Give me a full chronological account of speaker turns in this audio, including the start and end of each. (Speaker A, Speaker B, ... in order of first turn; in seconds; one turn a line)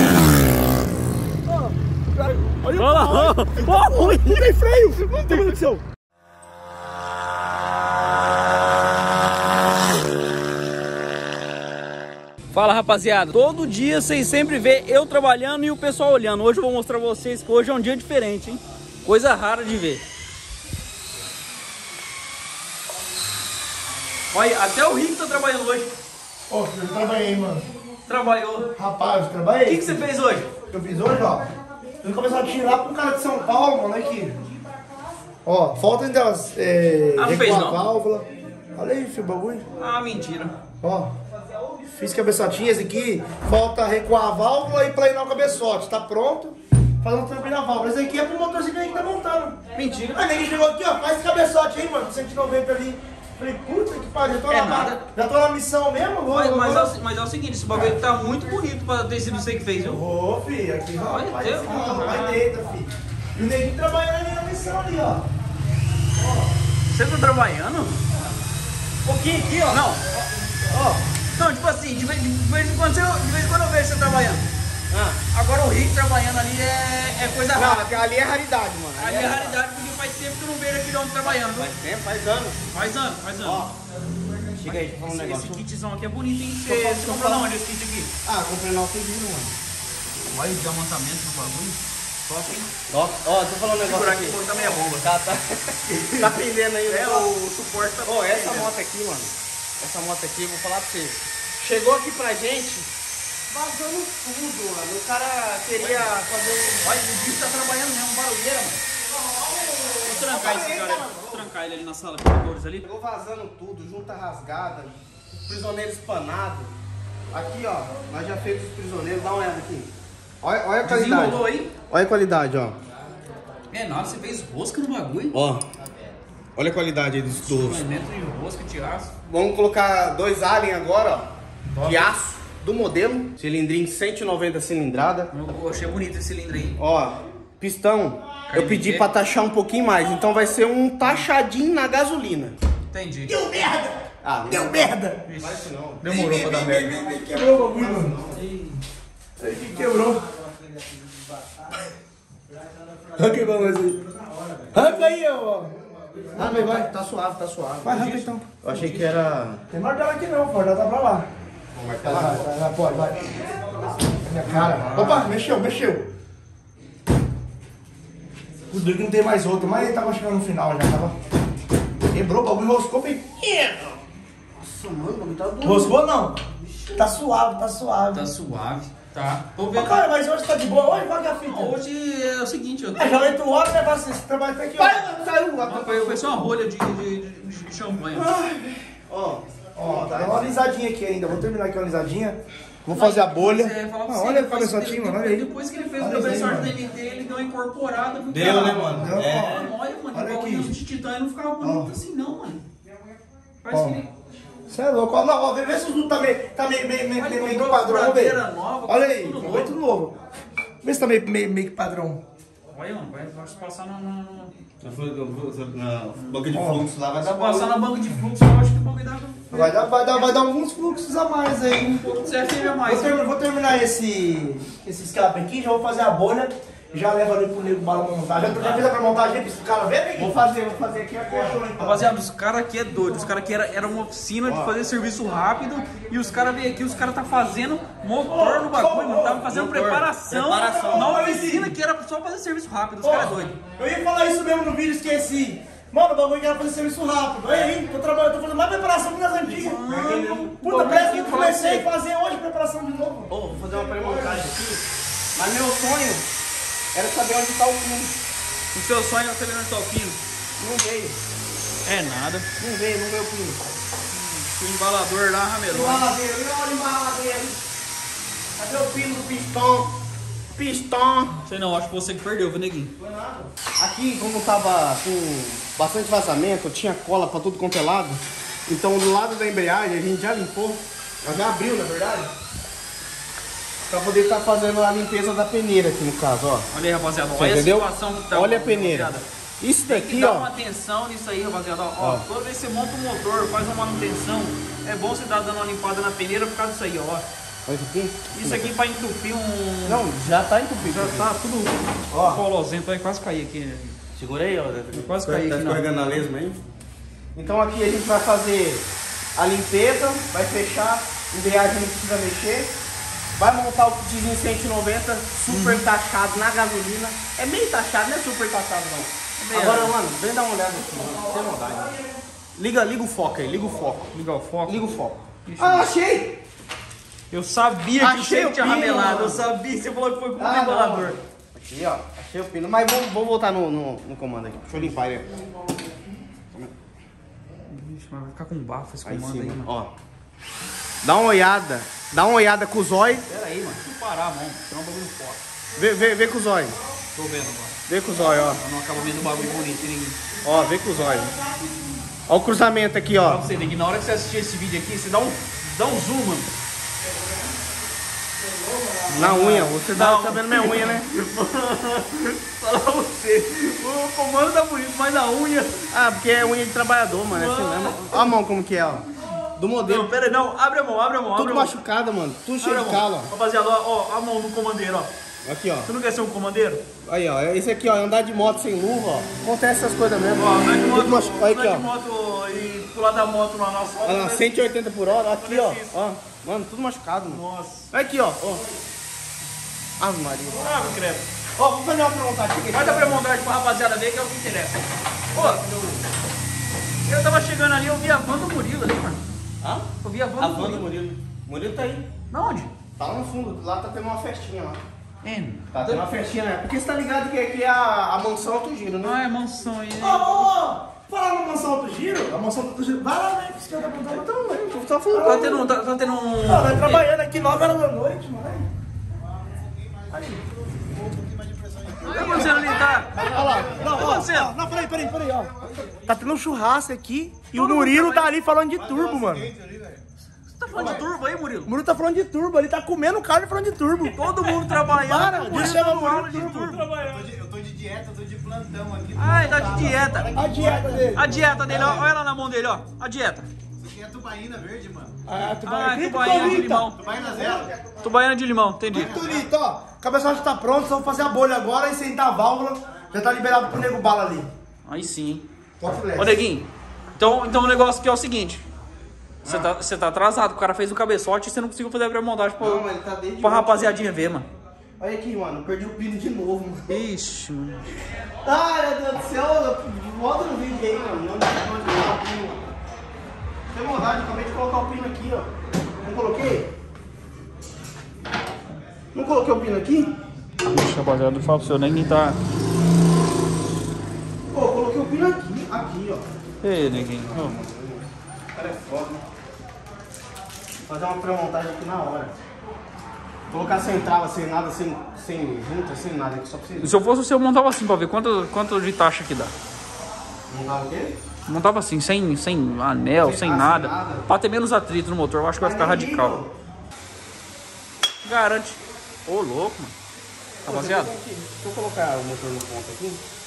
Speaker A: 1.5-5.8
Speaker B: 2.7-4.4
Speaker B: 5.2-5.6
Speaker B: 12.5-20.0
Speaker B: 24.3-25.9
Speaker A: 26.5-27.7
Speaker B: 28.1-28.7
Speaker A: 28.7-30.0
Speaker B: 29.6-30.5
Speaker A: 30.7-31.4
Speaker A: 32.0-34.4
Speaker A: 35.5-39.6
Speaker B: 37.2-37.8
Speaker B: 39.8-40.5
Speaker A: 40.8-41.1
Speaker A: 42.0-57.0
Speaker B: 49.8-50.2
Speaker B: 54.5-55.0
Speaker B: 56.3-60.0
Speaker A: 59.8-65.3
Speaker B: 61.1-62.4
Speaker B: 66.9-68.0
Speaker B: 69.0-70.3
Speaker C: 70.7-71.0
Speaker B: 71.3-74.5
Speaker C: 74.9-75.2
Speaker B: 75.3-78.0
Speaker C: 77.5-79.6
Speaker B: 79.0-81.7
Speaker C: 81.2-82.6
Speaker B: 82.7-83.7
Speaker C: 83.4-83.7
Speaker C: 84.6-85.6
Speaker B: 84.7-88.1
Speaker C: 86.7-87.5
Speaker C: 88.2-89.6
Speaker B: 90.3-92.7
Speaker C: 92.9-97.3
Speaker B: 93.8-95.2
Speaker B: 95.9-98.7
Speaker C: 98.0-102.9
Speaker C: 103.5-106.9
Speaker B: 105.8-106.1
Speaker B: 106.8-108.8
Speaker A: 109.5-110.8
Speaker C: 109.7-111.4
Speaker B: 110.0-112.8
Speaker C: 112.8-116.7
Speaker C: 117.3-122.8
Speaker B: 120.8-121.7
Speaker B: 123.7-125.4
Speaker C: 125.3-125.6
Speaker C: 126.5-127.8
Speaker B: 127.5-129.1
Speaker C: 129.2-131.3
Speaker B: 131.7-132.1
Speaker C: 131.8-135.3
Speaker B: 135.3-136.8
Speaker C: 136.8-142.5
Speaker B: 138.5-139.1
Speaker B: 142.9-143.3
Speaker A: 143.3-145.2
Speaker C: 144.2-144.8
Speaker B: 145.3-146.9
Speaker C: 145.3-146.2
Speaker A: 146.0-148.1
Speaker C: 147.7-148.5
Speaker B: 148.3-148.8
Speaker A: 149.4-150.2
Speaker D: 150.4-151.1
Speaker A: 153.2-154.0
Speaker D: 154.1-154.8
Speaker A: 154.7-155.7
Speaker D: 156.0-156.3
Speaker A: 156.3-156.9
Speaker C: 156.3-158.1
Speaker A: 157.8-158.5
Speaker B: 157.9-159.1
Speaker C: 158.6-159.6
Speaker A: 159.7-161.3
Speaker C: 161.7-162.5
Speaker A: 162.0-163.5
Speaker A: 164.2-166.1
Speaker B: 164.5-165.2
Speaker C: 164.8-165.2
Speaker A: 168.7-171.2
Speaker A: 172.1-174.0
Speaker C: 174.6-175.9
Speaker A: 175.6-176.4
Speaker A: 176.9-178.3
Speaker B: 178.1-180.1
Speaker A: 179.7-181.8
Speaker B: 181.4-183.3
Speaker A: 182.9-185.2
Speaker C: 184.8-186.2
Speaker B: 185.6-188.3
Speaker C: 188.1-190.6
Speaker A: 189.8-196.8
Speaker B: 192.9-202.6
Speaker C: 198.3-199.7
Speaker A: 198.4-200.8
Speaker A: 201.6-201.9
Speaker B: 203.6-204.1
Speaker A: 203.7-204.0
Speaker A: 204.7-210.2
Speaker B: 207.2-209.7
Speaker A: 210.8-212.2
Speaker B: 212.7-214.5
Speaker C: 214.8-217.8
Speaker B: 216.1-216.4
Speaker A: 216.5-216.9
Speaker B: 217.2-219.7
Speaker A: 219.5-230.4
Speaker B: 222.0-223.2
Speaker B: 228.3-228.9
Speaker C: 230.2-231.6
Speaker A: 231.2-232.1
Speaker B: 231.8-243.6
Speaker C: 234.4-234.8
Speaker A: 238.2-239.5
Speaker C: 239.4-241.4
Speaker A: 240.7-241.8
Speaker A: 243.0-254.5
Speaker B: 249.4-251.9
Speaker C: 249.8-251.5
Speaker C: 253.3-254.8
Speaker C: 255.3-256.2
Speaker C: 256.9-258.2
Speaker B: 258.7-260.2
Speaker C: 260.6-261.2
Speaker B: 261.8-262.5
Speaker C: 262.6-263.6
Speaker B: 264.1-266.1
Speaker C: 265.7-267.6
Speaker C: 268.6-269.9
Speaker C: 270.6-271.3
Speaker B: 271.4-272.9
Speaker C: 273.0-282.3
Speaker C: 283.9-286.7
Speaker B: 286.7-289.2
Speaker C: 287.4-290.5
Speaker B: 289.8-297.2
Speaker C: 292.0-292.2
Speaker C: 297.6-298.7
Speaker B: 298.3-300.1
Speaker C: 299.8-301.3
Speaker B: 300.8-303.9
Speaker C: 302.1-302.4
Speaker C: 304.1-306.6
Speaker B: 304.9-305.9
Speaker C: 307.3-312.7
Speaker C: 313.4-321.9
Speaker B: 315.5-315.8
Speaker B: 319.4-319.9
Speaker A: 320.9-322.2
Speaker C: 322.6-324.1
Speaker B: 324.1-325.9
Speaker C: 324.6-326.4
Speaker B: 327.3-331.2
Speaker C: 327.9-329.5
Speaker C: 330.4-335.3
Speaker B: 337.7-339.7
Speaker C: 339.1-339.9
Speaker C: 341.0-343.2
Speaker B: 343.3-345.4
Speaker C: 345.8-346.8
Speaker B: 347.1-350.2
Speaker C: 347.9-348.6
Speaker C: 350.4-351.3
Speaker C: 352.3-353.4
Speaker B: 353.2-356.5
Speaker B: 359.1-365.9
Speaker C: 359.1-361.1
Speaker C: 365.9-369.1
Speaker B: 367.3-368.3
Speaker C: 369.6-370.1
Speaker B: 369.8-371.8
Speaker C: 371.3-373.3
Speaker B: 372.6-375.1
Speaker C: 375.4-375.9
Speaker B: 375.9-376.8
Speaker C: 377.0-381.9
Speaker B: 380.4-384.5
Speaker C: 384.0-388.6
Speaker B: 385.4-386.0
Speaker B: 387.3-387.9
Speaker C: 390.0-390.9
Speaker B: 390.6-391.3
Speaker C: 391.6-393.2
Speaker B: 392.7-395.6
Speaker C: 395.3-396.0
Speaker B: 397.1-399.2
Speaker C: 399.6-402.1
Speaker B: 400.0-400.9
Speaker B: 402.3-402.7
Speaker C: 403.0-404.8
Speaker B: 405.2-406.0
Speaker C: 405.7-409.2
Speaker B: 409.0-410.5
Speaker A: 410.0-414.3
Speaker C: 414.1-415.6
Speaker A: 415.1-415.6
Speaker B: 415.1-417.1
Speaker A: 416.4-418.7
Speaker D: 420.9-424.1
Speaker B: 422.0-423.1
Speaker A: 422.2-425.5
Speaker B: 423.8-424.5
Speaker D: 425.6-426.0
Speaker A: 426.1-429.5
Speaker B: 427.5-428.3
Speaker D: 428.8-430.0
Speaker B: 430.6-431.7
Speaker A: 430.7-431.0
Speaker A: 431.6-436.9
Speaker B: 434.1-437.2
Speaker D: 436.7-441.5
Speaker B: 439.1-440.3
Speaker C: 439.7-440.1
Speaker A: 440.3-442.1
Speaker B: 441.1-443.5
Speaker D: 443.8-445.2
Speaker A: 445.2-446.9
Speaker B: 445.6-447.0
Speaker D: 446.8-447.8
Speaker C: 447.2-447.7
Speaker B: 448.0-449.2
Speaker D: 448.9-449.5
Speaker A: 448.9-454.5
Speaker B: 454.9-455.4
Speaker A: 455.8-456.4
Speaker B: 456.1-458.6
Speaker B: 459.4-462.9
Speaker C: 462.6-464.0
Speaker B: 463.4-464.5
Speaker C: 465.0-466.9
Speaker B: 466.9-467.8
Speaker C: 468.4-472.6
Speaker C: 473.7-475.5
Speaker C: 476.0-476.7
Speaker C: 479.1-480.1
Speaker B: 480.6-482.4
Speaker C: 484.5-486.2
Speaker B: 486.6-487.6
Speaker C: 486.8-489.2
Speaker C: 490.9-492.3
Speaker C: 493.5-496.9
Speaker B: 496.8-499.5
Speaker C: 500.5-501.1
Speaker B: 501.5-506.4
Speaker C: 503.2-504.3
Speaker C: 505.6-506.5
Speaker B: 508.2-509.9
Speaker B: 510.6-511.1
Speaker C: 510.6-513.2